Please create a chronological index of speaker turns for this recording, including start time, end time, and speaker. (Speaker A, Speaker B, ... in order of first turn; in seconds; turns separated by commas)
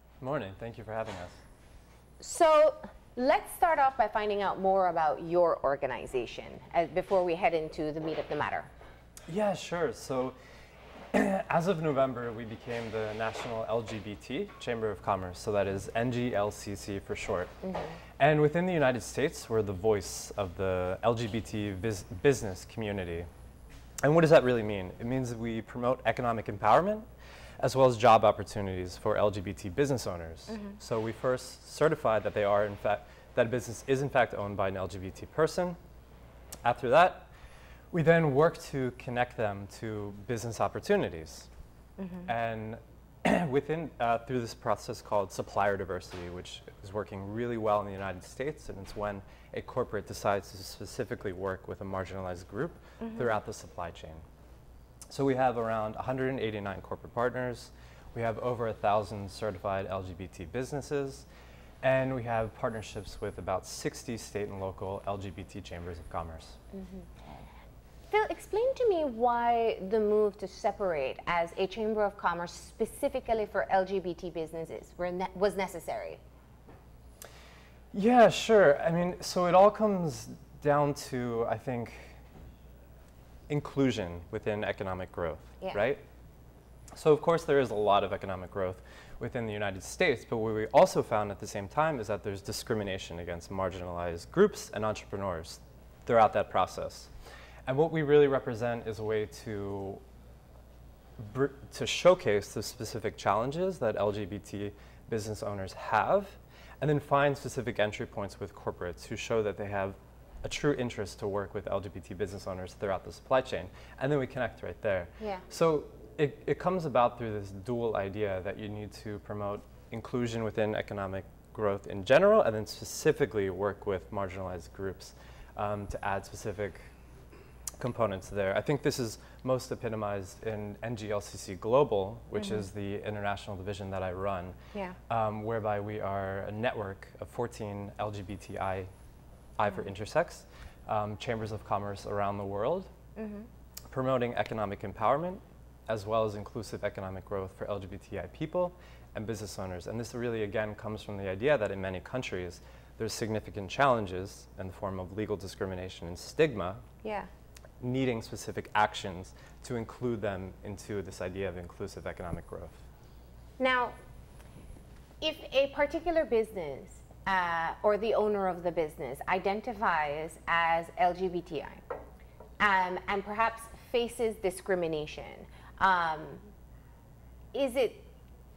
Speaker A: 0.2-1.4, Speaker B: 2.2-8.7, Speaker A: 9.3-10.4, Speaker A: 11.1-17.5, Speaker B: 17.6-18.0, Speaker A: 18.2-23.3, Speaker A: 24.0-27.1, Speaker A: 27.6-35.8, Speaker B: 30.5-30.8, Speaker A: 36.6-37.3, Speaker A: 37.9-41.5, Speaker B: 42.0-42.3, Speaker A: 42.3-54.2, Speaker B: 53.0-53.3, Speaker A: 55.1-61.3, Speaker A: 61.8-66.6, Speaker B: 66.7-67.1, Speaker B: 68.1-76.2, Speaker A: 77.9-82.2, Speaker A: 83.5-86.0, Speaker A: 87.0-97.1, Speaker A: 97.7-100.0, Speaker A: 101.2-126.9, Speaker A: 127.8-134.6, Speaker B: 132.4-132.7, Speaker A: 135.1-138.9, Speaker A: 139.6-142.9, Speaker B: 143.2-143.5, Speaker A: 143.9-156.8, Speaker B: 157.0-157.3, Speaker A: 157.8-162.8, Speaker B: 163.6-164.0, Speaker B: 165.2-171.8, Speaker B: 172.6-176.5, Speaker B: 177.5-178.1